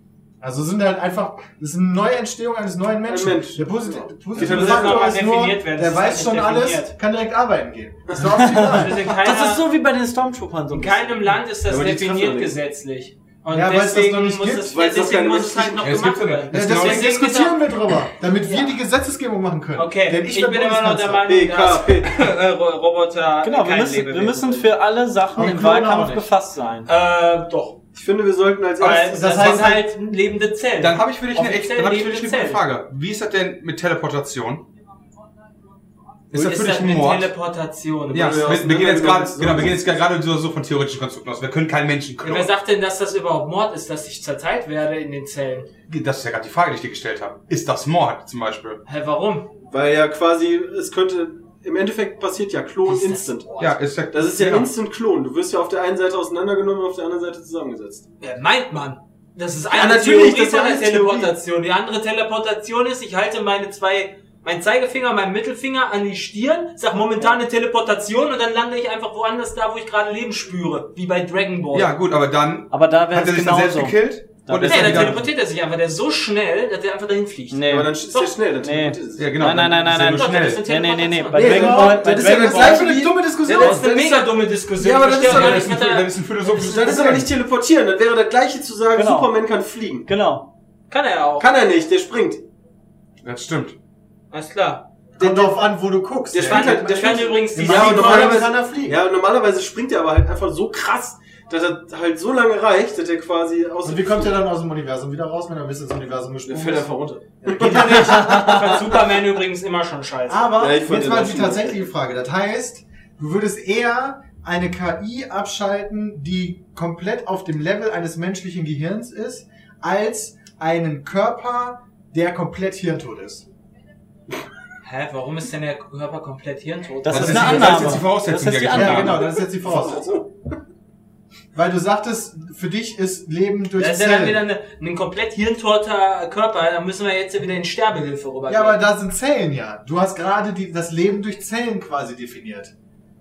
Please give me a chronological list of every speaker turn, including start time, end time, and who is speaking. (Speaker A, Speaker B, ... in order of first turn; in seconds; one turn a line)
Speaker A: 0.4-9.1
Speaker B: 3.0-5.1
Speaker C: 4.3-7.0
Speaker D: 8.2-11.2
Speaker C: 8.6-9.7
Speaker C: 10.7-17.7
Speaker B: 11.7-12.6
Speaker A: 13.5-14.8
Speaker B: 14.7-16.1
Speaker E: 15.8-17.1
Speaker A: 16.5-21.3
Speaker C: 18.2-18.7
Speaker C: 19.8-24.7
Speaker B: 21.3-22.2
Speaker D: 23.4-26.9
Speaker A: 25.3-26.3
Speaker C: 26.9-27.8
Speaker B: 27.9-29.4
Speaker C: 28.8-32.6
Speaker E: 28.8-29.1
Speaker A: 29.1-29.9
Speaker E: 30.8-34.7
Speaker E: 36.3-37.3
Speaker C: 36.3-38.6
Speaker B: 38.1-40.0
Speaker E: 38.1-42.5
Speaker C: 42.2-45.7
Speaker E: 45.9-48.8
Speaker C: 48.9-49.5
Speaker B: 49.7-53.6
Speaker C: 52.9-53.8
Speaker E: 53.6-54.7
Speaker B: 54.1-58.1
Speaker C: 58.2-71.9
Speaker B: 59.7-61.3
Speaker E: 71.7-75.2
Speaker D: 72.7-75.2
Speaker C: 74.7-78.3
Speaker D: 77.5-78.0
Speaker B: 77.7-79.4
Speaker D: 78.6-83.0
Speaker E: 79.2-80.7
Speaker C: 79.6-81.6
Speaker B: 81.3-83.8
Speaker A: 81.4-84.3
Speaker C: 83.5-86.6
Speaker E: 84.8-87.2
Speaker B: 84.9-85.7
Speaker B: 86.5-90.1
Speaker A: 86.9-87.3
Speaker D: 88.9-89.3
Speaker D: 90.1-90.5
Speaker C: 90.9-91.5
Speaker B: 91.4-92.4
Speaker E: 93.2-93.8
Speaker C: 94.3-94.9
Speaker B: 95.2-95.6
Speaker A: 95.2-99.0
Speaker B: 96.3-104.5
Speaker C: 96.4-98.5
Speaker A: 103.8-106.9
Speaker B: 106.5-107.9
Speaker A: 107.4-109.0
Speaker C: 107.8-110.6
Speaker A: 110.3-123.5
Speaker B: 110.6-111.9
Speaker C: 124.8-128.1
Speaker D: 127.0-129.2
Speaker E: 127.1-129.4
Speaker A: 128.7-130.1
Speaker B: 129.3-130.3
Speaker A: 131.5-134.5
Speaker C: 133.8-138.8
Speaker A: 138.5-142.7